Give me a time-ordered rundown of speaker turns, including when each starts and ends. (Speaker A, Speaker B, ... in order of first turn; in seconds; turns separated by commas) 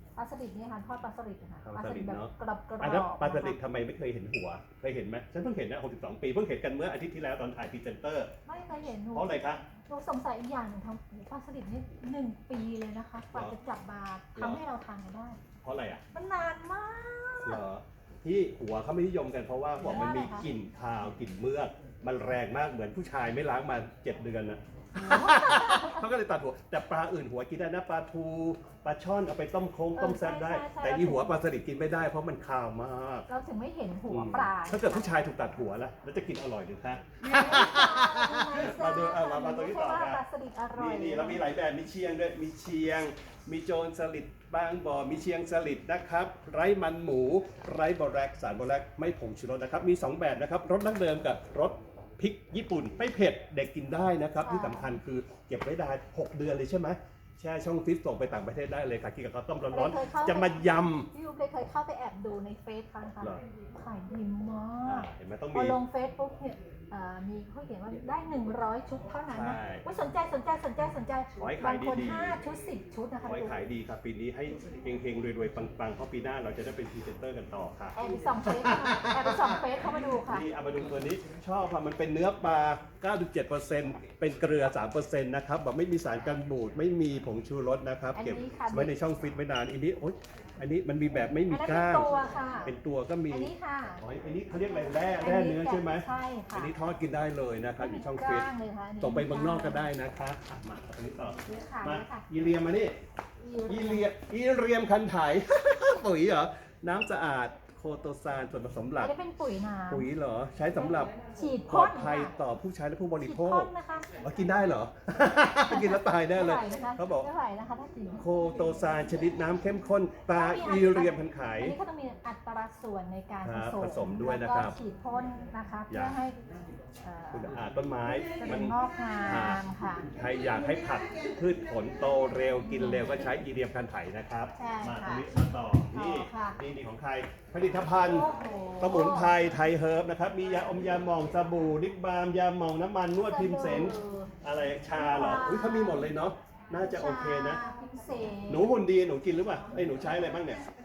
Speaker A: 0.2-3.6, Speaker B: 1.6-8.3, Speaker A: 8.4-15.4, Speaker B: 9.1-9.6, Speaker B: 13.3-13.5, Speaker B: 14.3-14.6, Speaker B: 15.6-16.0, Speaker A: 16.1-17.6, Speaker B: 17.4-33.3, Speaker A: 19.8-20.5, Speaker A: 24.9-26.0, Speaker A: 29.9-31.4, Speaker A: 33.3-35.2, Speaker B: 34.1-40.2, Speaker A: 37.2-41.4, Speaker B: 40.7-61.1, Speaker A: 54.4-55.0, Speaker A: 59.7-73.6, Speaker B: 64.8-65.8, Speaker B: 69.3-69.8, Speaker B: 71.3-72.4, Speaker B: 73.2-79.6, Speaker A: 77.9-80.5, Speaker B: 80.2-92.1, Speaker A: 88.1-88.9, Speaker A: 91.5-92.7, Speaker B: 92.6-98.5, Speaker A: 93.3-94.0, Speaker A: 94.6-96.7, Speaker A: 97.8-99.9, Speaker B: 99.0-102.9, Speaker A: 101.4-102.2, Speaker A: 103.4-104.1, Speaker B: 103.7-109.1, Speaker A: 109.0-110.1, Speaker B: 109.9-111.1, Speaker A: 110.7-112.3, Speaker B: 111.7-117.3, Speaker A: 113.2-114.1, Speaker A: 115.6-118.2, Speaker B: 118.2-121.7, Speaker A: 120.3-126.4, Speaker B: 123.4-124.8, Speaker B: 125.9-126.2, Speaker A: 127.0-127.5, Speaker B: 127.3-138.3, Speaker A: 128.2-130.1, Speaker A: 132.6-133.2, Speaker A: 134.6-135.3, Speaker A: 135.9-136.6, Speaker A: 138.0-139.4, Speaker B: 138.8-147.6, Speaker A: 143.2-144.3, Speaker A: 144.9-146.1, Speaker A: 146.7-148.7, Speaker B: 148.5-150.7